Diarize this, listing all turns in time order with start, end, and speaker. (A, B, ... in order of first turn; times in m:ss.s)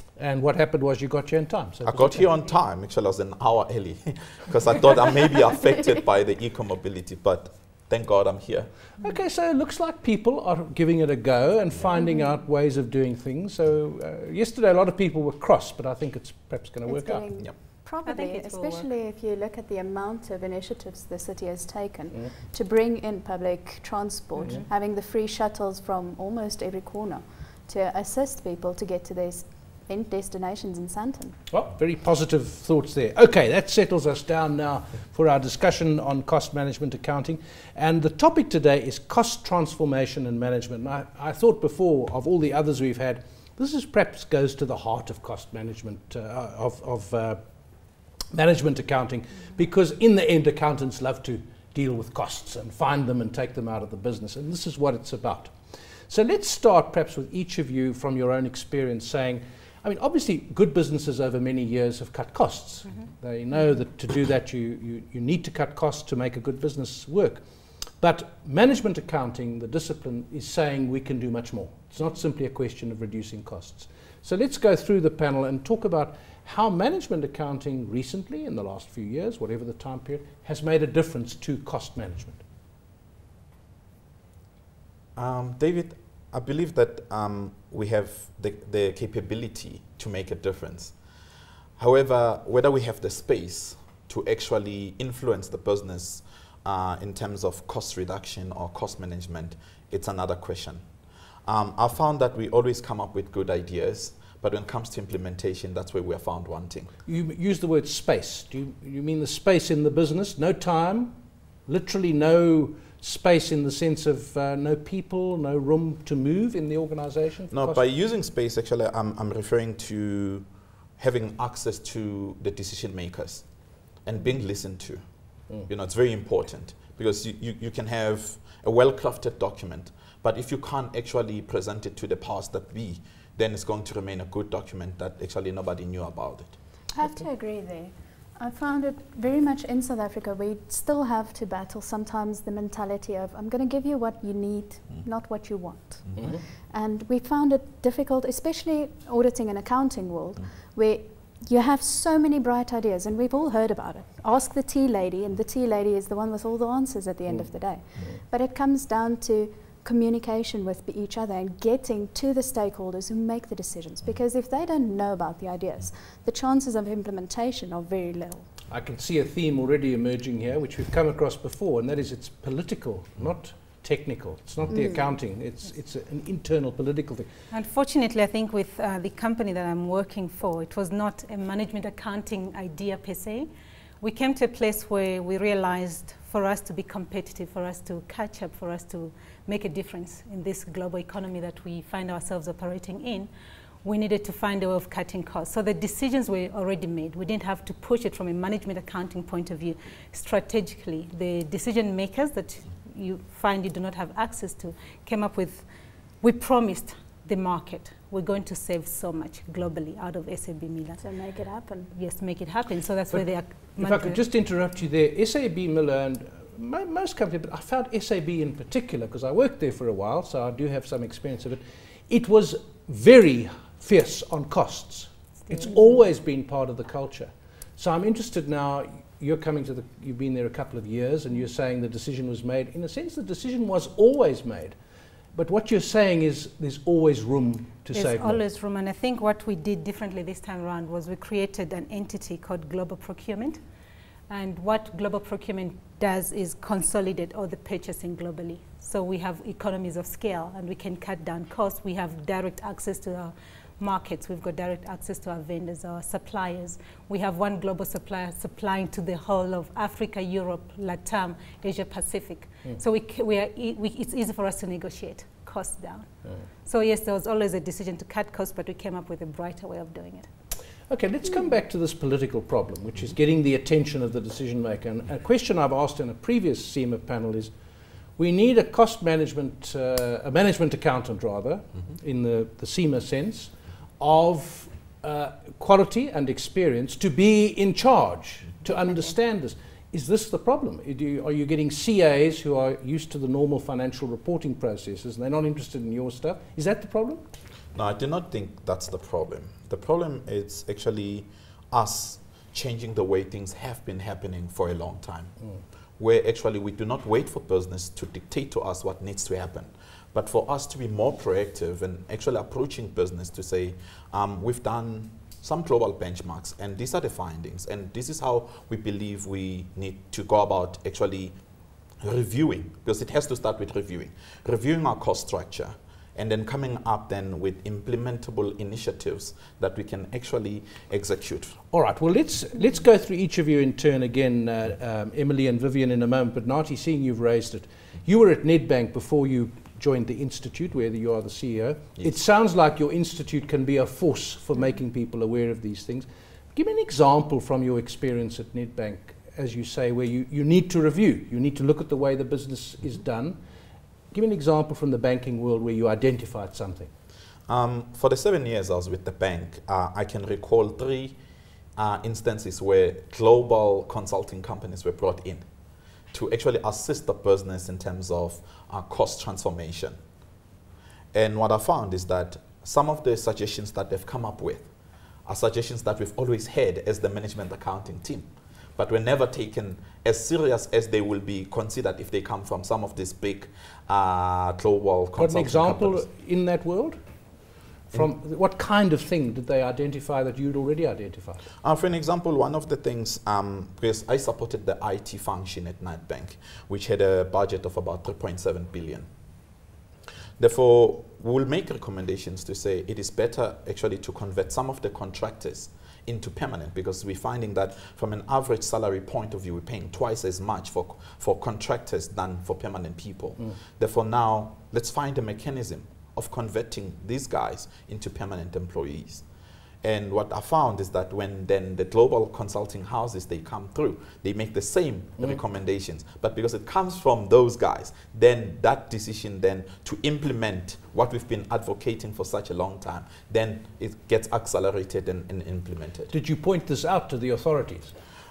0:00.2-0:02.2 A
0:01.8-0:08.7 B
0:09.0-0:17.2 A
0:12.0-0:12.2 C
0:16.9-0:31.4 C
0:18.1-0:18.9 D
0:24.4-0:24.7 D
0:31.5-1:07.4 A
1:08.0-1:22.4 A
1:25.2-1:31.0 B
1:31.8-1:40.8 B
1:41.5-1:46.9 B
1:47.1-1:57.8 A
1:57.5-2:00.5 B
2:01.0-2:03.5 B
2:04.0-2:16.6 B
2:17.0-2:48.5 C
2:26.1-2:26.3 B
2:26.2-2:26.4 A
2:48.7-2:57.3 A
2:54.7-2:55.1 C
2:57.5-3:03.5 D
3:04.0-3:13.3 D
3:13.8-3:25.7 D
3:26.2-3:31.0 D
3:31.0-3:31.9 C
3:31.9-3:34.2 D
3:33.1-3:54.8 A
3:55.3-3:58.4 A
3:57.9-4:03.6 D
4:04.3-4:26.1 D
4:26.6-4:30.3 D
4:30.9-4:37.5 A
4:38.2-4:57.3 A
4:57.8-5:05.4 B
5:06.0-5:21.4 B
5:22.0-5:31.6 B
5:31.7-5:53.4 A
5:54.1-5:56.9 A
5:57.5-6:01.2 B
6:01.8-6:05.5 B
6:06.1-6:10.0 B
6:11.1-6:14.7 B
6:15.3-6:26.1 B
6:25.2-6:27.0 A
6:27.9-6:31.4 A
6:31.6-6:39.1 B
6:40.4-6:59.2 B
6:59.8-7:16.1 B
7:16.1-7:17.9 A